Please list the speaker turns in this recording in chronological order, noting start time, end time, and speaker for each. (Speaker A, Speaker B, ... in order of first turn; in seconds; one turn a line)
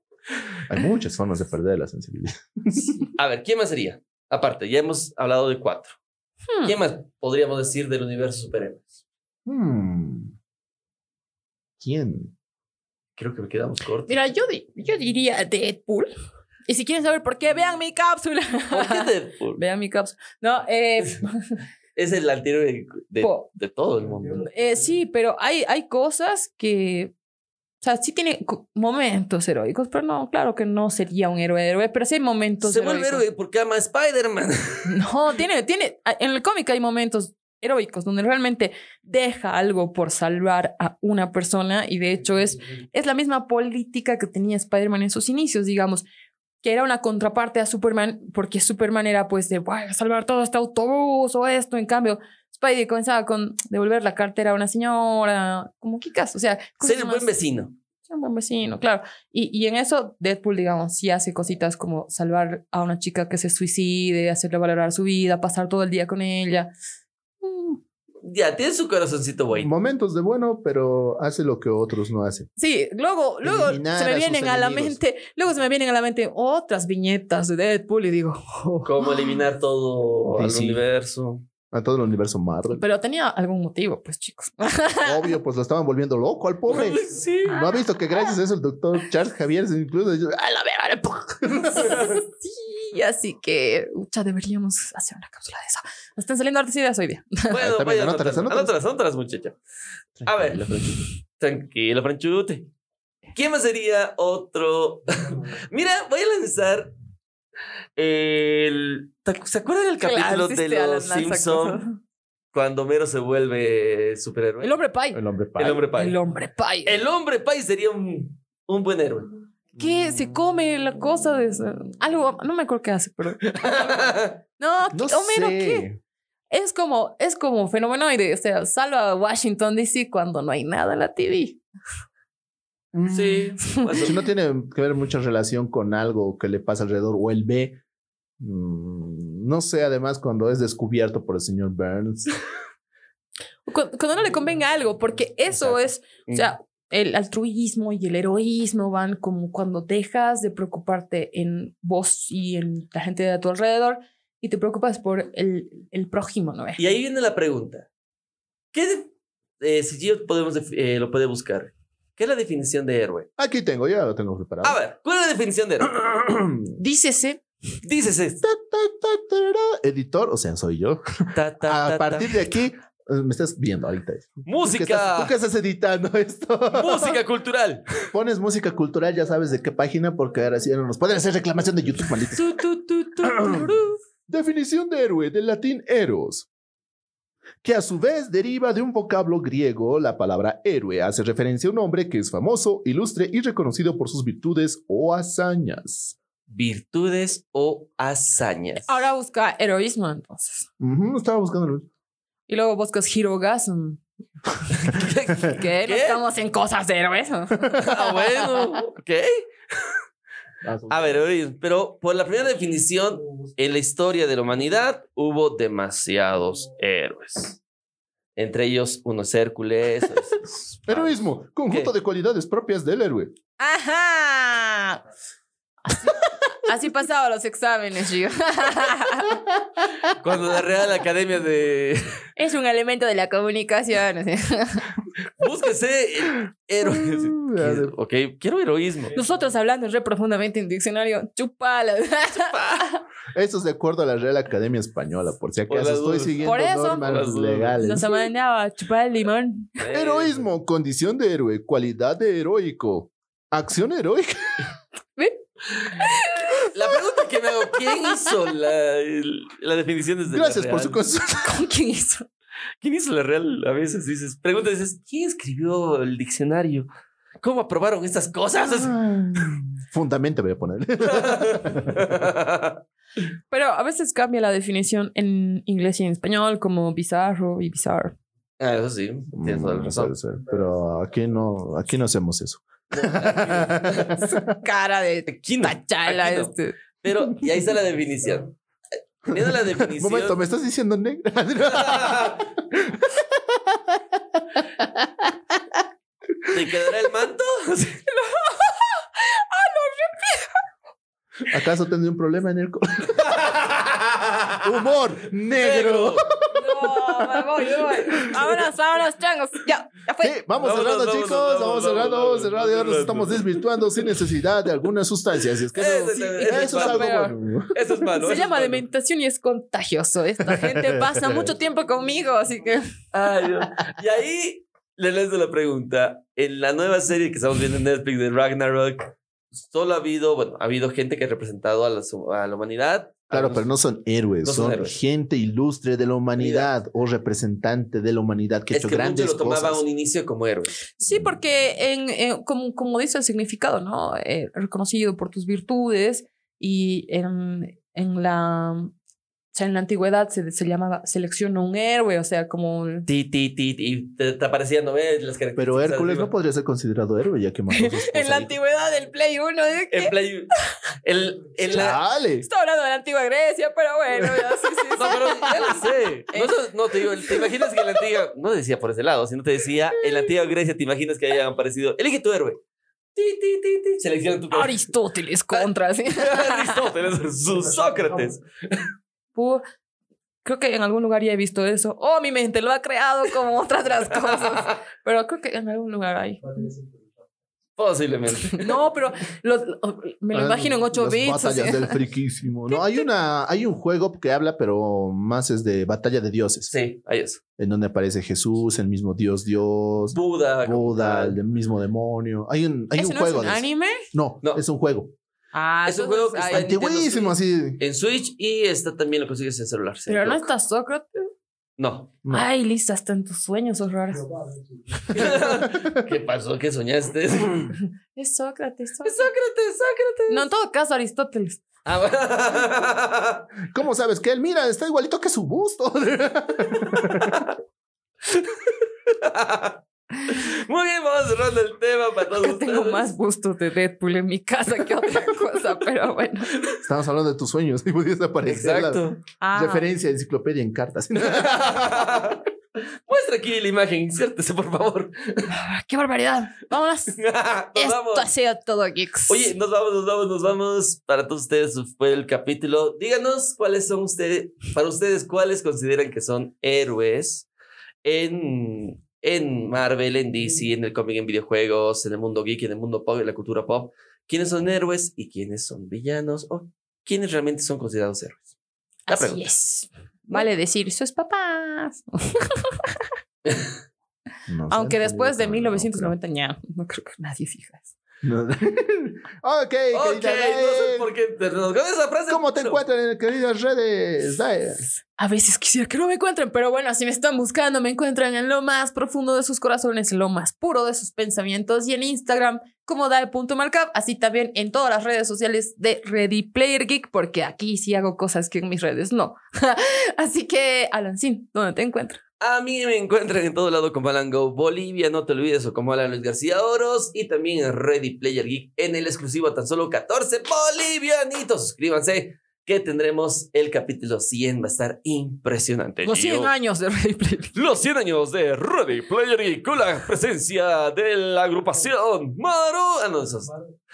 Speaker A: 0.7-3.0
Speaker B: 3.1-6.0
Speaker C: 6.5-6.8
Speaker B: 6.6-9.0
Speaker A: 9.5-10.3
Speaker A: 11.8-12.3
Speaker B: 13.2-14.1
Speaker C: 14.1-16.1
Speaker C: 16.7-21.6
Speaker B: 18.7-19.6
Speaker B: 22.0-24.5
Speaker C: 23.2-23.5
Speaker C: 24.4-27.1
Speaker C: 27.8-33.2
Speaker B: 32.6-34.9
Speaker C: 34.9-46.1
Speaker C: 46.6-57.3
Speaker B: 56.8-57.7
Speaker C: 58.1-66.7
Speaker C: 67.4-67.8
Speaker B: 68.2-69.7
Speaker A: 69.5-72.5
Speaker C: 72.6-79.4
Speaker A: 73.4-75.0
Speaker B: 78.8-81.5
Speaker A: 80.3-80.8
Speaker A: 81.7-82.8
Speaker C: 82.7-85.3
Speaker A: 85.0-92.0
Speaker B: 86.7-87.7
Speaker C: 87.5-88.2
Speaker C: 91.6-97.5
Speaker B: 97.5-99.6
Speaker A: 97.5-98.8
Speaker A: 100.2-101.0
Speaker B: 100.2-102.7
Speaker B: 103.3-106.9
Speaker B: 108.0-111.8
Speaker C: 110.0-112.0
Speaker B: 112.5-114.8
Speaker C: 114.6-115.2
Speaker A: 115.1-115.9
Speaker B: 115.6-116.2
Speaker C: 115.9-117.0
Speaker B: 116.8-119.3
Speaker C: 119.8-123.5
Speaker B: 123.4-124.4
Speaker C: 124.6-125.9
Speaker A: 124.9-126.0
Speaker C: 126.5-131.6
Speaker A: 132.9-137.8
Speaker B: 133.1-134.2
Speaker C: 133.6-134.0
Speaker A: 138.4-142.3
Speaker C: 143.7-156.8
Speaker B: 156.8-157.9
Speaker B: 158.7-163.3
Speaker A: 163.4-164.8
Speaker B: 164.6-166.6
Speaker C: 166.8-167.4
Speaker B: 167.8-168.4
Speaker A: 168.4-177.2
Speaker B: 171.3-172.4
Speaker B: 174.4-175.3
Speaker B: 176.7-177.9
Speaker A: 178.1-182.5
Speaker C: 182.3-184.0
Speaker A: 183.4-183.7
Speaker A: 184.3-186.5
Speaker A: 187.6-196.2
Speaker B: 196.5-199.0
Speaker C: 198.9-200.7
Speaker A: 200.8-201.9
Speaker C: 202.5-204.0
Speaker B: 204.7-206.2
Speaker C: 205.4-208.2
Speaker B: 207.8-210.0
Speaker A: 210.6-211.2
Speaker B: 210.9-217.6
Speaker B: 218.4-221.9
Speaker A: 220.9-223.3
Speaker C: 223.6-225.0
Speaker C: 225.9-229.4
Speaker B: 230.2-232.2
Speaker C: 232.4-234.9
Speaker B: 235.4-239.1
Speaker A: 236.8-237.9
Speaker C: 239.1-243.0
Speaker B: 242.5-242.8
Speaker A: 243.3-248.1
Speaker B: 245.7-247.9
Speaker C: 246.4-247.1
Speaker C: 247.8-249.8
Speaker B: 249.8-250.5
Speaker A: 249.9-254.6
Speaker C: 255.9-257.0
Speaker B: 256.7-261.0
Speaker C: 257.7-258.1
Speaker A: 260.3-261.4
Speaker C: 261.2-262.3
Speaker B: 262.8-266.9
Speaker B: 267.4-269.0
Speaker A: 268.7-272.1
Speaker B: 271.0-272.8
Speaker C: 273.5-278.1
Speaker B: 278.6-280.1
Speaker A: 279.4-284.4
Speaker B: 282.9-284.2
Speaker C: 284.2-286.8
Speaker B: 285.3-288.6
Speaker B: 289.3-290.4
Speaker A: 289.3-295.3
Speaker B: 291.7-292.5
Speaker B: 296.5-298.0
Speaker C: 298.1-300.6
Speaker A: 301.5-303.5
Speaker B: 303.1-304.7
Speaker A: 304.6-307.2
Speaker B: 305.5-306.3
Speaker C: 306.5-310.4
Speaker A: 310.2-317.7
Speaker B: 310.6-313.6
Speaker B: 315.7-318.9
Speaker C: 316.1-317.3
Speaker C: 318.2-322.9
Speaker A: 320.5-321.5
Speaker B: 323.1-333.6
Speaker A: 333.3-339.8
Speaker B: 334.4-335.0
Speaker B: 336.4-336.7
Speaker B: 338.7-340.8
Speaker C: 341.0-348.9
Speaker A: 341.1-341.4
Speaker C: 349.5-353.1
Speaker B: 353.1-356.3
Speaker A: 355.6-358.6
Speaker C: 357.7-360.1
Speaker B: 359.9-360.5
Speaker B: 361.0-362.0
Speaker A: 361.7-362.5
Speaker C: 362.4-368.0
Speaker B: 364.9-372.6
Speaker B: 373.1-374.9
Speaker C: 374.5-376.9
Speaker B: 376.1-378.9
Speaker C: 379.4-379.6
Speaker C: 380.4-386.8
Speaker B: 384.4-384.7
Speaker B: 387.8-388.8
Speaker C: 388.5-392.0
Speaker A: 390.3-396.7
Speaker B: 396.7-397.4
Speaker A: 397.6-405.1
Speaker B: 400.1-401.4
Speaker C: 403.0-404.1
Speaker C: 405.5-406.8
Speaker B: 405.9-410.5
Speaker A: 406.5-407.8
Speaker C: 410.1-411.3
Speaker B: 411.8-412.1
Speaker C: 412.3-414.5
Speaker A: 415.1-416.1
Speaker B: 415.1-417.8
Speaker C: 418.1-419.3
Speaker B: 419.0-420.5
Speaker C: 420.3-421.6
Speaker B: 421.9-423.4
Speaker A: 423.7-427.4
Speaker B: 427.1-427.5
Speaker B: 428.3-433.1
Speaker C: 432.4-436.6
Speaker A: 436.8-442.3
Speaker B: 438.4-439.2
Speaker C: 439.4-439.9
Speaker B: 441.2-442.5
Speaker B: 443.1-445.5
Speaker C: 445.5-447.2
Speaker B: 447.1-448.3
Speaker C: 447.8-449.5
Speaker B: 449.3-457.5
Speaker B: 458.0-468.5
Speaker C: 469.1-473.0
Speaker B: 469.1-469.5
Speaker B: 473.5-473.7
Speaker A: 474.5-476.1
Speaker C: 474.7-477.9
Speaker A: 478.2-481.1
Speaker B: 479.9-482.8
Speaker A: 482.3-484.8
Speaker C: 485.2-502.2
Speaker B: 502.4-516.5
Speaker C: 516.0-517.6
Speaker B: 517.5-523.6